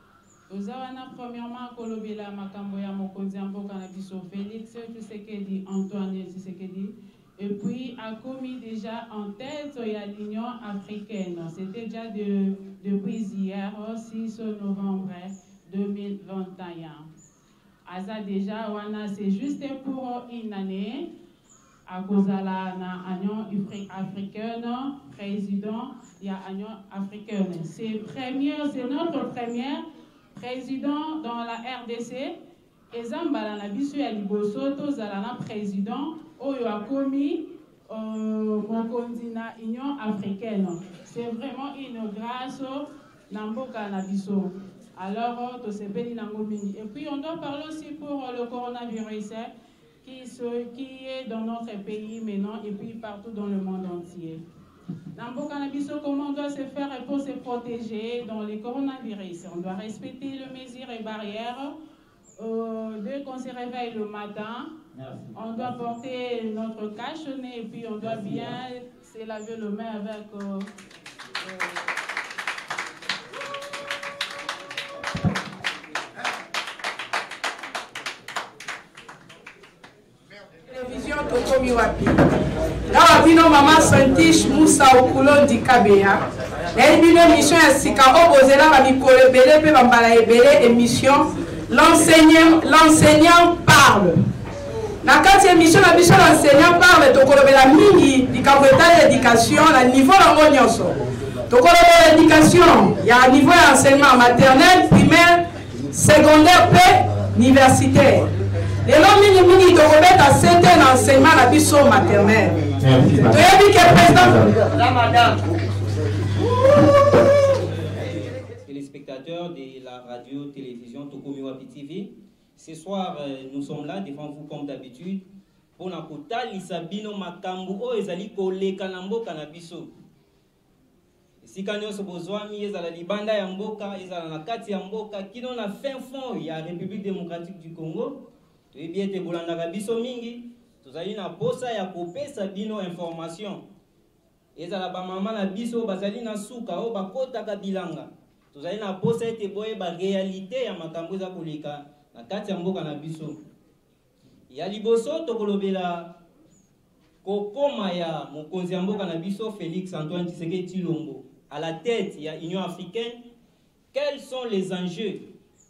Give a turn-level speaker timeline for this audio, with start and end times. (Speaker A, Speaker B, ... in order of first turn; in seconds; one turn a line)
Speaker A: 0.5-17.1
Speaker A: 17.9-21.1
Speaker A: 21.9-32.4
Speaker A: 32.9-49.5
Speaker A: 50.0-54.4
Speaker A: 55.2-61.8
Speaker A: 62.4-64.7
Speaker B: 65.0-65.6
Speaker A: 65.3-70.7
Speaker B: 68.2-68.5
Speaker C: 80.7-82.2
Speaker C: 82.9-86.2
Speaker C: 86.8-94.2
Speaker C: 95.0-101.0
Speaker C: 101.5-105.4
Speaker C: 105.9-108.3
Speaker C: 108.8-112.7
Speaker B: 112.8-114.6
Speaker C: 113.2-114.4
Speaker D: 118.7-125.2
Speaker D: 125.8-129.9
Speaker D: 131.4-143.6
Speaker D: 144.6-153.4
Speaker D: 154.5-156.2
Speaker D: 157.2-163.2
Speaker D: 163.9-165.3